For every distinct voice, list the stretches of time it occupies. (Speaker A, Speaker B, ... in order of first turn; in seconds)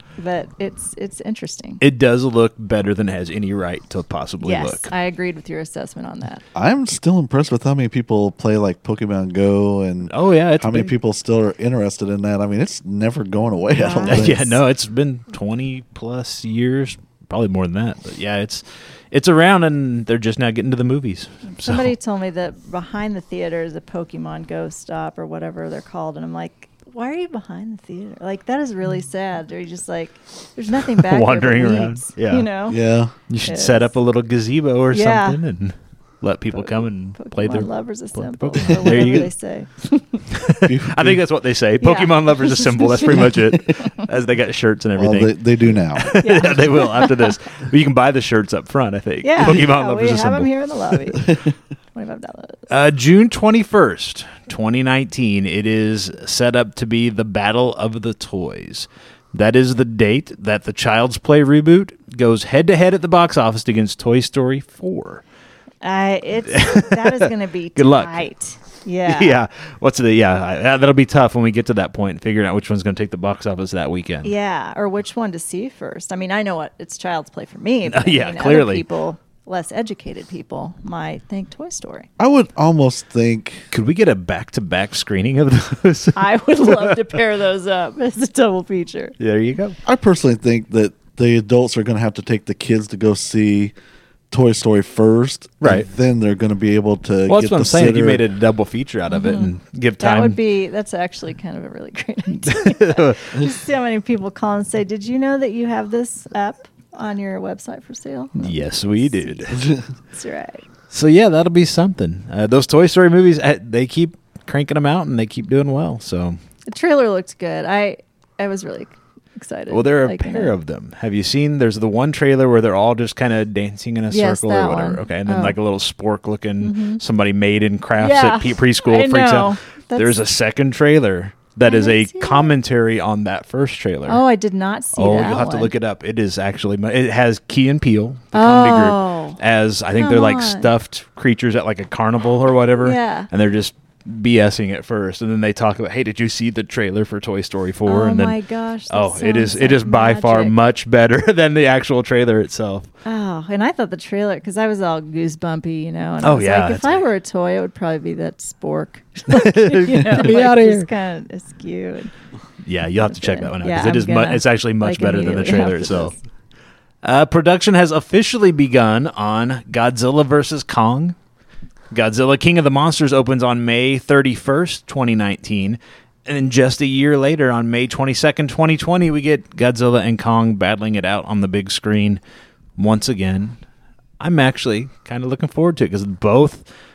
Speaker A: 0.2-1.8, 4.4-6.4, 13.7-14.6, 21.6-32.8, 33.4-33.9, 34.9-35.4, 36.5-40.2, 41.8-43.4, 46.2-47.4, 49.2-51.4, 51.9-52.6, 65.8-69.4, 74.2-82.1, 86.2-89.2, 99.1-110.6, 116.7-120.5, 124.1-125.5, 126.6-127.0, 128.0-130.2, 131.6-132.5, 134.1-135.7, 138.3-139.4, 139.9-140.7, 142.8-143.3, 147.8-150.6, 153.0-162.1, 163.0-166.1
Speaker B: 1.8-4.9, 10.1-10.9, 14.1-21.9, 30.9-32.5, 33.3-39.3, 40.3-45.4, 45.9-50.5, 52.7-65.2, 66.5-68.3, 69.0-74.3, 77.9-78.8, 83.7-87.1, 89.2-89.8, 95.6-95.9, 97.3-100.4, 102.5-103.3, 108.4-109.7, 110.9-116.4, 119.7-134.2, 134.9-148.3, 148.9-152.9, 156.2-157.0, 159.3-160.9, 162.6-166.1, 167.0-171.2, 171.9-182.2, 182.8-183.6, 184.2-186.7
Speaker C: 6.5-14.4, 32.7-33.1, 38.7-39.0, 40.6-41.2, 45.0-46.2, 82.2-83.7, 89.8-93.7, 94.3-98.2, 109.5-109.8